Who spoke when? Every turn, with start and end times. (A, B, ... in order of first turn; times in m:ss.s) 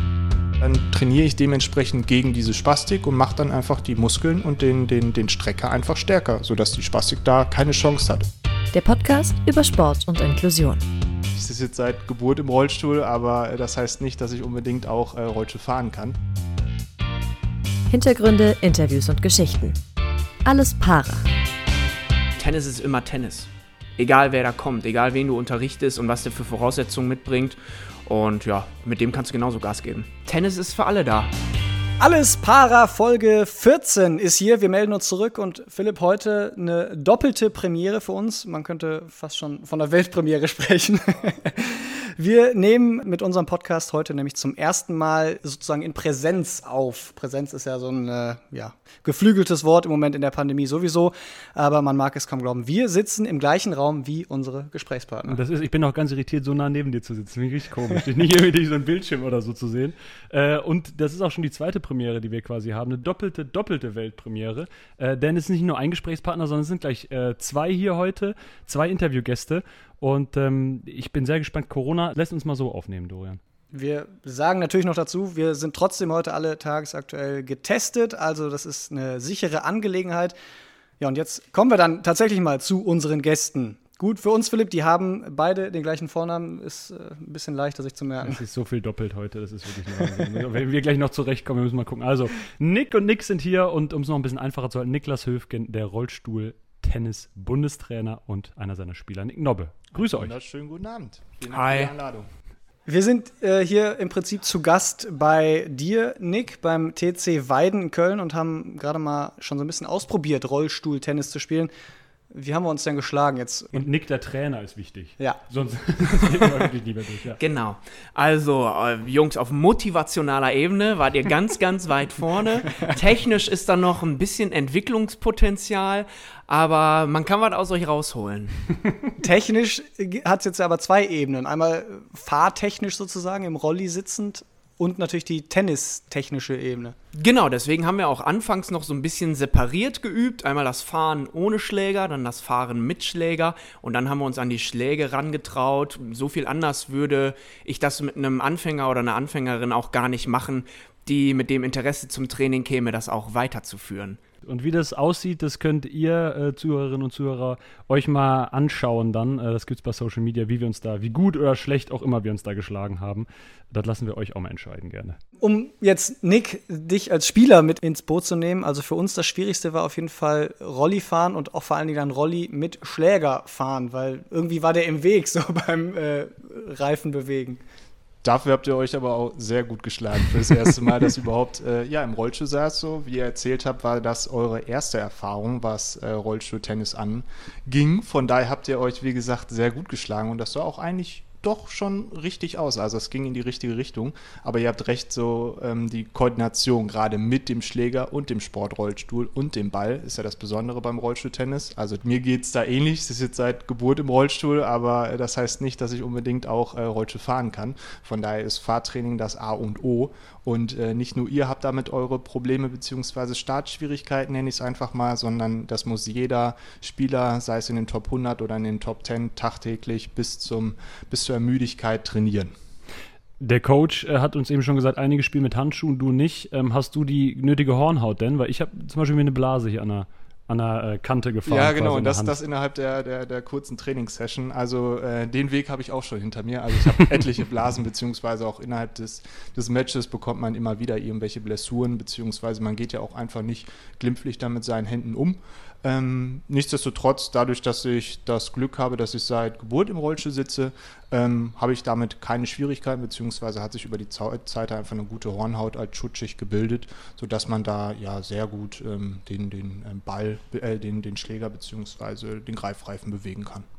0:00.6-0:08.3 A
0:08.7-0:10.8 B
0:11.3-0:16.2 A
0:17.9-0:19.8 B
0:20.4-0:21.3 B
0:22.4-0:31.3 C
0:32.0-0:55.4 D
0:55.3-1:13.4 E
1:13.7-1:20.3 D
1:21.0-1:28.4 D
1:28.2-1:40.3 E
1:39.9-1:42.3 A
1:41.5-1:41.9 C
1:42.9-1:51.7 D
1:52.3-1:53.8 D
1:53.7-1:57.4 E
1:56.1-1:56.5 D
1:57.4-2:08.6 C
2:09.2-2:17.0 D
2:17.1-2:34.2 C
2:34.4-2:45.2 E
2:45.4-2:57.6 D
2:58.2-3:42.5 A
3:43.4-3:52.3 E
3:51.4-4:23.6 A